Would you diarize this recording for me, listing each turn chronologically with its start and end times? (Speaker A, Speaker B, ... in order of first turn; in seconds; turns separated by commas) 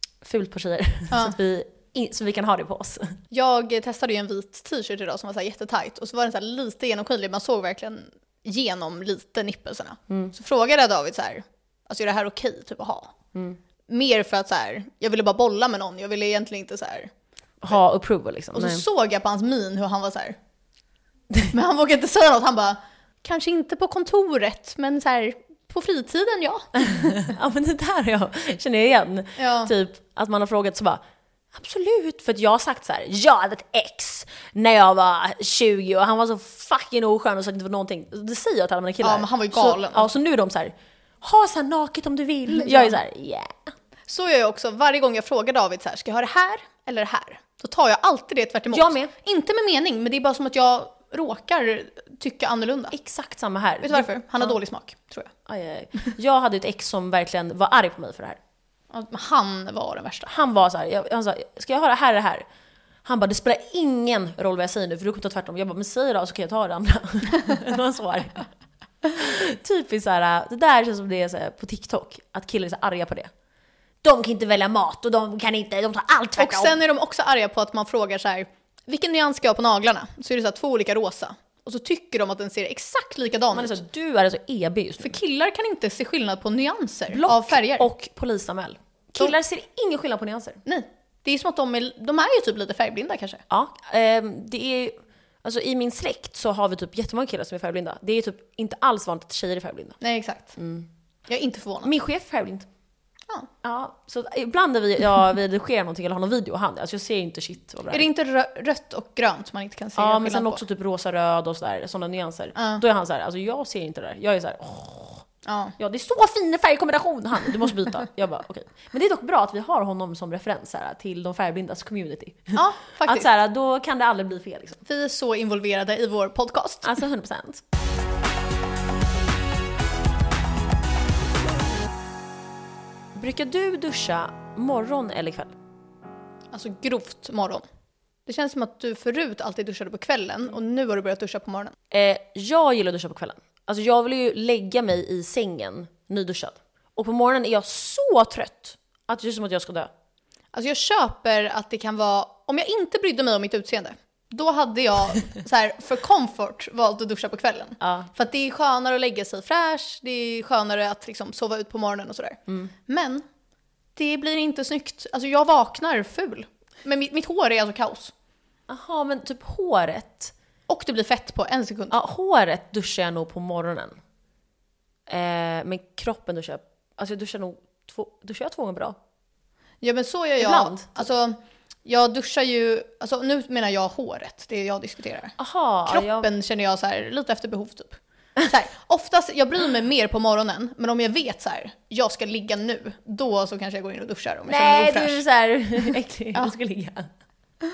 Speaker A: 0.2-3.2, Speaker B: 3.3-13.1, Speaker B: 13.9-17.1, Speaker A: 17.6-18.8, Speaker B: 18.5-20.4, Speaker B: 21.5-27.3, Speaker A: 26.8-31.0, Speaker B: 29.4-29.7, Speaker A: 31.5-43.7, Speaker B: 39.0-40.1, Speaker B: 42.5-42.9, Speaker B: 44.1-52.9, Speaker A: 48.7-49.1, Speaker A: 52.9-54.6, Speaker B: 53.8-55.3, Speaker A: 55.5-58.4, Speaker B: 58.9-60.3, Speaker A: 60.3-62.5, Speaker A: 63.0-68.5, Speaker A: 69.1-73.3, Speaker A: 74.0-76.8, Speaker B: 76.4-83.8, Speaker A: 83.5-85.2, Speaker B: 85.0-87.9, Speaker A: 87.1-90.6, Speaker B: 90.7-93.4, Speaker A: 93.5-100.0, Speaker B: 100.0-100.6, Speaker A: 100.6-100.9, Speaker B: 101.3-101.9, Speaker A: 101.8-102.7, Speaker A: 103.6-108.1, Speaker B: 107.9-110.6, Speaker A: 110.0-115.3, Speaker B: 112.6-112.8, Speaker B: 115.5-115.8, Speaker A: 115.8-124.8, Speaker B: 122.5-123.3, Speaker B: 124.9-126.9, Speaker A: 126.8-127.6, Speaker A: 133.2-135.5, Speaker B: 136.5-137.6, Speaker B: 138.3-141.8, Speaker A: 141.9-149.9, Speaker B: 150.5-163.2, Speaker A: 157.8-158.1, Speaker B: 164.0-168.1, Speaker A: 168.7-170.3, Speaker B: 170.7-172.0, Speaker A: 171.9-174.0, Speaker A: 175.1-179.0, Speaker B: 179.8-185.3, Speaker A: 180.4-181.1, Speaker A: 185.4-186.3, Speaker B: 185.9-195.2, Speaker A: 194.5-197.1